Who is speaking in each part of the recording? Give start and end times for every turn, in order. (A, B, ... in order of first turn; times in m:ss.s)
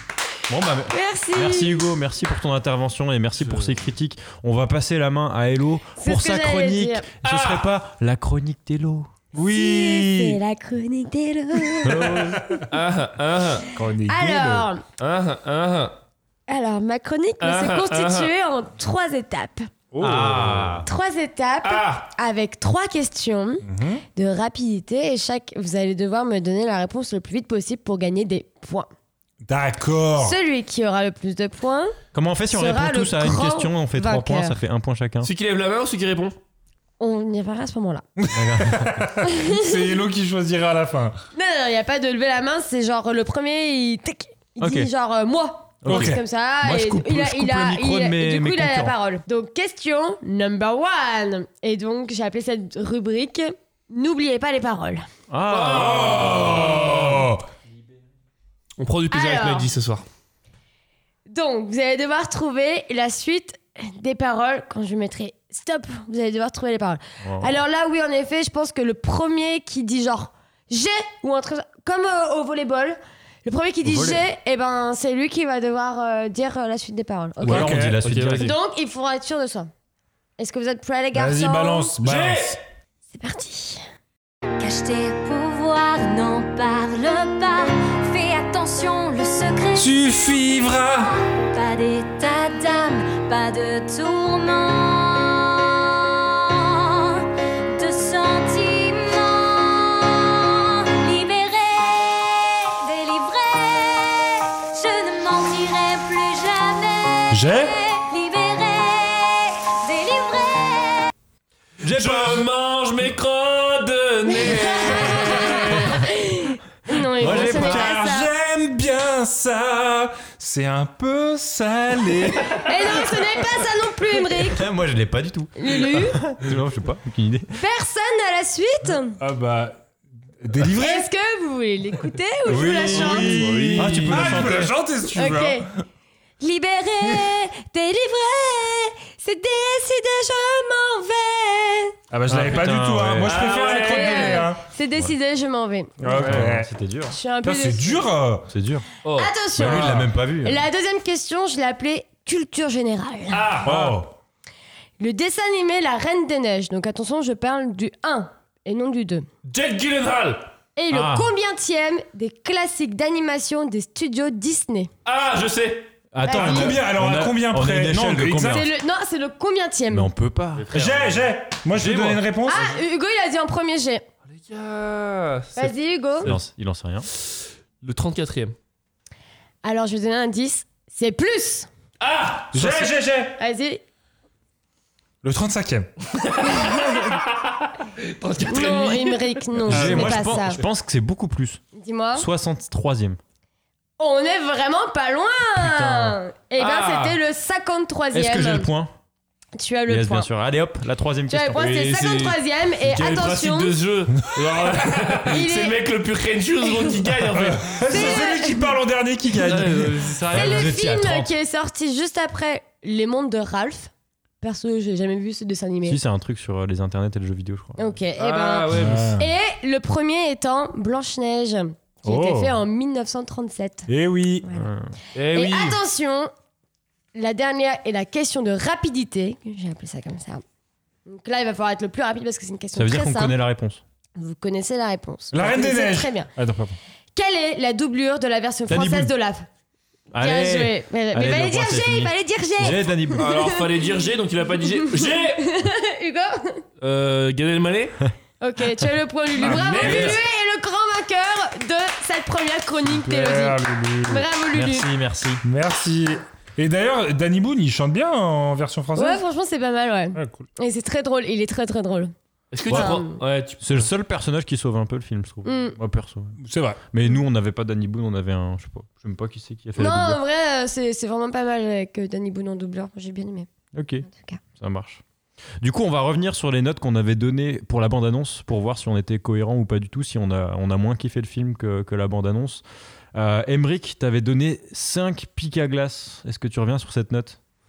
0:00.5-0:09.1 A
0:00.9-0:01.8 B
0:03.4-0:03.7 C
0:06.0-0:07.0 B
0:07.2-0:07.7 C
0:09.3-0:10.4 D
0:09.4-0:12.2 B
0:11.7-0:12.7 D
0:11.8-0:12.4 A
0:12.7-0:13.7 C
0:13.7-0:14.7 D
0:14.1-0:14.8 B
0:15.0-0:16.0 C
0:16.5-0:19.7 B
0:17.4-0:18.3 C
0:19.9-0:20.8 D
0:20.0-0:20.9 A
0:20.8-0:23.6 B
0:21.6-0:22.1 C
0:23.6-0:24.0 D
0:24.2-0:28.9 B
0:29.4-0:30.4 D
0:30.2-0:31.9 B
0:32.1-0:35.3 A
0:32.5-0:34.6 B
0:35.2-0:36.3 C
0:37.0-0:38.0 B
0:38.2-0:41.1 D
0:38.3-0:39.0 A
0:39.3-0:39.5 B
0:41.3-0:55.0 B
0:44.6-0:44.9 A
0:45.8-0:49.0 A
0:45.9-0:46.2 D
0:55.3-0:57.2 A
0:55.5-0:57.2 C
0:55.7-0:57.4 D
0:58.8-1:00.0 C
0:59.1-0:59.7 B
1:01.3-1:17.8 B
1:07.2-1:07.5 A
1:13.8-1:14.2 A
1:17.4-1:18.6 A
1:17.4-1:18.0 D
1:18.0-1:18.5 C
1:18.4-1:19.7 B
1:20.4-1:21.9 B
1:21.1-1:22.6 D
1:22.0-1:22.6 C
1:23.1-1:23.8 B
1:24.6-1:30.0 E
1:29.8-1:31.2 D
1:31.0-1:51.1 E
1:47.3-1:47.7 D
1:51.8-1:52.4 A
1:51.8-1:56.0 C
1:54.3-1:58.3 B
1:55.1-1:55.7 A
1:57.2-1:58.0 A
1:57.2-2:03.0 D
2:02.6-2:04.6 B
2:04.3-2:07.6 A
2:05.6-2:06.2 B
2:07.6-2:09.2 B
2:09.2-2:09.8 D
2:10.4-2:11.1 D
2:10.8-2:13.4 B
2:12.4-2:14.7 A
2:12.6-2:15.7 D
2:12.9-2:14.7 C
2:15.1-2:15.6 B
2:16.4-2:21.9 B
2:22.1-2:24.6 D
2:22.3-2:23.6 A
2:23.2-2:24.4 C
2:23.5-2:26.0 B
2:26.0-2:26.7 D
2:26.1-2:27.2 A
2:26.2-2:26.5 C
2:27.1-2:28.1 B
2:27.4-2:28.5 D
2:28.5-2:28.8 A
2:29.0-2:29.3 C
2:29.2-2:33.5 B
2:29.6-2:30.7 A
2:29.6-2:30.1 D
2:33.3-2:34.0 C
2:33.6-2:34.1 D
2:35.0-2:39.2 B
2:39.4-2:40.5 C
2:40.8-2:44.9 B
2:40.9-2:41.3 A
2:45.0-2:45.9 C
2:46.1-2:48.7 A
2:46.2-2:48.7 D
2:46.2-2:46.7 B
2:48.5-2:50.1 B
2:49.9-2:50.7 A
2:50.6-2:52.2 C
2:50.7-2:52.8 D
2:52.4-2:54.0 B
2:54.3-2:56.4 C
2:55.6-2:56.3 B
2:56.2-2:57.1 A
2:57.2-2:58.5 C
2:59.6-3:01.7 B
3:02.0-3:02.9 C
3:02.5-3:03.4 D
3:03.4-3:03.8 B
3:05.2-3:05.9 D
3:06.1-3:09.4 C
3:08.5-3:10.6 B
3:09.6-3:11.6 A
3:09.7-3:10.2 D
3:11.7-3:12.2 B
3:12.1-3:13.2 A
3:14.0-3:18.7 B
3:15.6-3:16.2 A
3:16.6-3:17.2 C
3:18.1-3:18.9 A
3:19.6-3:20.3 B
3:19.9-3:21.7 A
3:21.3-3:23.8 B
3:21.6-3:28.2 C
3:24.4-3:25.2 D
3:25.2-3:25.8 B
3:26.6-3:27.0 B
3:27.3-3:30.1 D
3:27.9-3:28.7 B
3:29.4-3:30.7 C
3:30.3-3:31.3 A
3:30.3-3:33.9 B
3:34.4-3:36.0 B
3:35.8-3:38.0 A
3:37.8-3:43.9 B
3:38.2-3:39.2 C
3:38.7-3:39.3 D
3:42.0-3:42.5 D
3:43.9-3:44.5 D
3:44.5-3:44.9 A
3:45.1-3:45.8 C
3:45.3-3:46.3 B
3:47.1-3:50.4 B
3:51.1-3:53.4 B
3:52.7-3:53.8 A
3:54.2-3:56.3 B
3:55.3-3:56.8 D
3:57.1-3:59.5 B
3:58.7-3:59.1 A
4:00.1-4:03.5 A
4:00.2-4:03.6 B
4:03.2-4:05.5 C
4:04.9-4:06.6 B
4:06.8-4:08.0 C
4:08.4-4:14.9 B
4:09.4-4:10.2 D
4:09.4-4:10.2 C
4:12.8-4:14.2 D
4:14.5-4:15.4 A
4:15.4-4:19.2 D
4:18.9-4:22.1 B
4:20.1-4:20.4 D
4:22.5-4:23.9 C
4:22.7-4:23.0 A
4:22.7-4:23.2 B
4:23.6-4:26.4 A
4:25.4-4:25.8 B
4:26.4-4:26.8 D
4:26.9-4:30.2 A
4:29.8-4:33.5 B
4:33.7-4:35.0 A
4:34.0-4:34.4 B
4:35.6-4:42.6 A
4:43.1-4:47.4 A